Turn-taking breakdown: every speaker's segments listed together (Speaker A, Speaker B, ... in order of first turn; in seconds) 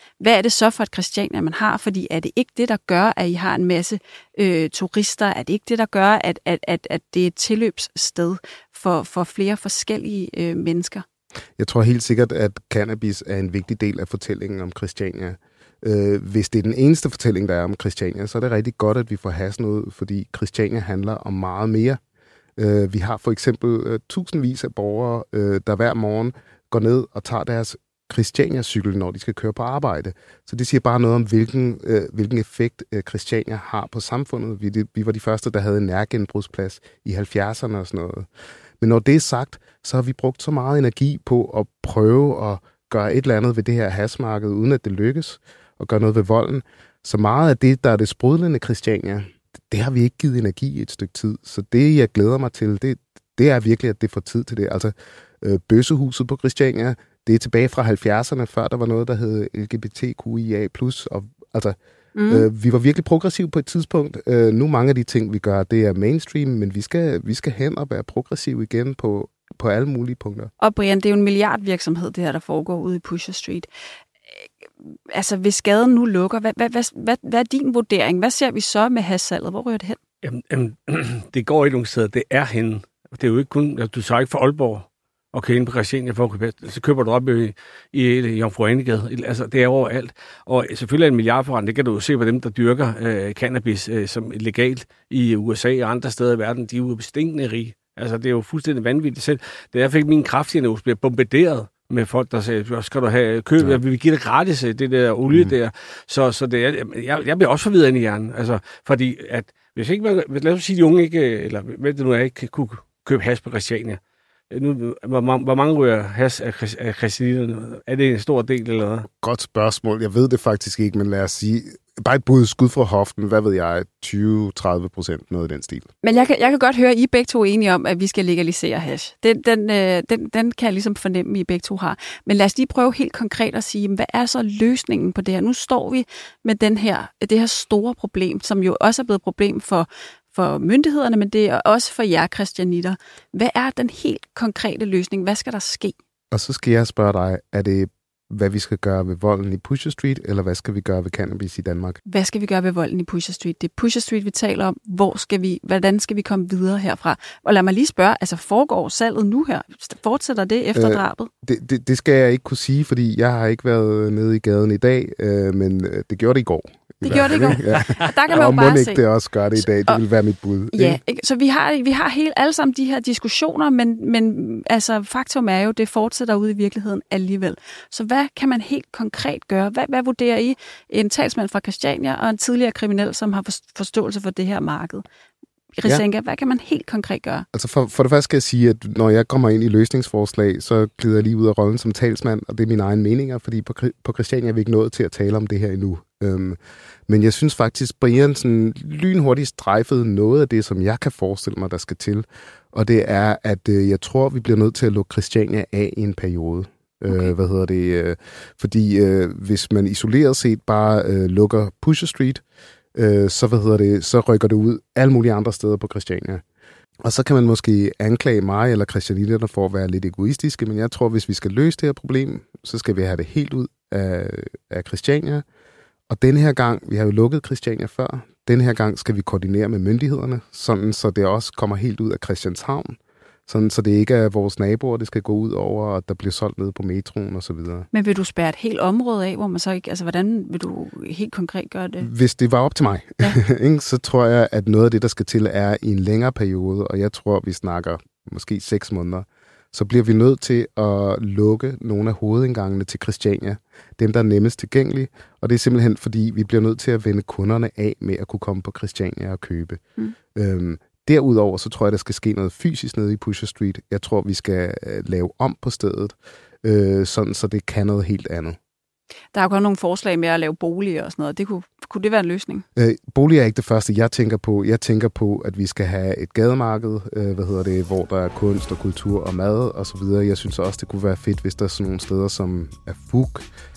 Speaker A: 0.2-11.0, 62.1-62.5, 70.6-73.7, 75.1-80.0, 126.0-145.9, 152.1-161.3, 167.0-169.0, 170.7-185.0, 185.8-187.4, 237.9-242.1, 269.3-272.6
Speaker B: 11.6-22.0, 22.6-38.3, 38.8-61.8, 62.3-70.5, 105.3-105.5, 119.2-125.9, 146.3-152.0, 160.7-171.0, 187.5-212.4, 212.9-216.4, 217.0-225.4, 226.1-237.9, 242.0-259.8, 260.3-268.6, 272.7-283.4
Speaker C: 80.2-114.0, 114.5-119.1